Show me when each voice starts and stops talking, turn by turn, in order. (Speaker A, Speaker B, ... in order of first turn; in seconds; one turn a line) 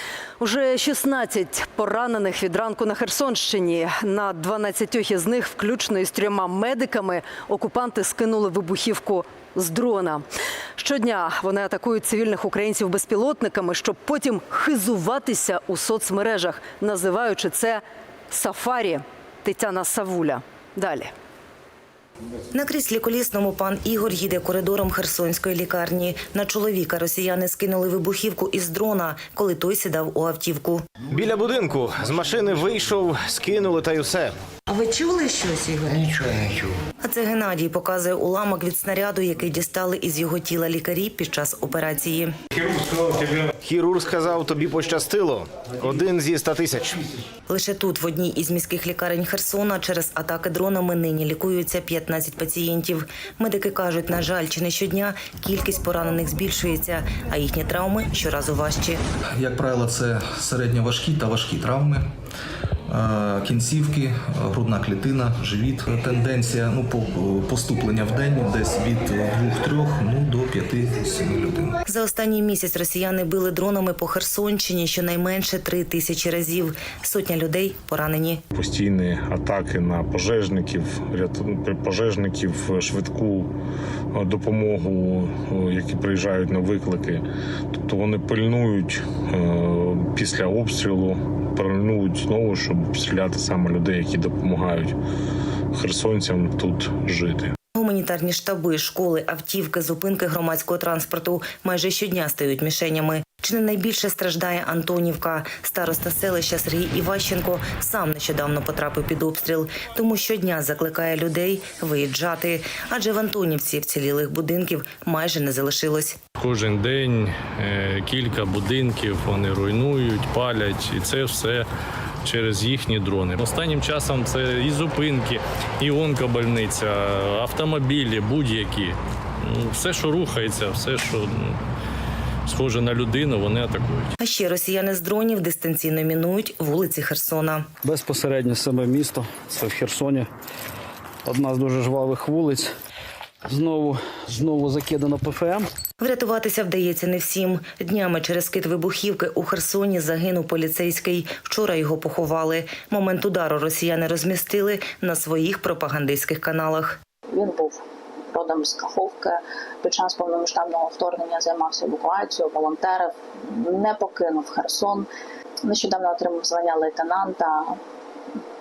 Speaker A: 0.4-10.2
Speaker A: 10.8-21.1
Speaker B: 22.5-30.8
Speaker C: 31.1-34.4
Speaker B: 34.7-42.3
Speaker C: 42.8-47.0
Speaker B: 47.5-59.0
Speaker D: 59.4-62.0
Speaker D: 62.9-71.7
Speaker B: 71.8-78.4
Speaker E: 78.5-83.5
Speaker E: 84.1-94.9
Speaker E: 95.7-97.5
Speaker B: 97.7-116.2
Speaker F: 116.4-121.7
Speaker F: 122.2-131.5
Speaker F: 132.4-134.1
Speaker B: 134.2-137.7
Speaker G: 138.6-140.3
Speaker G: 141.3-141.6
Speaker G: 143.9-145.7
Speaker B: 146.0-157.0
Speaker H: 157.3-165.1
Speaker H: 165.6-167.8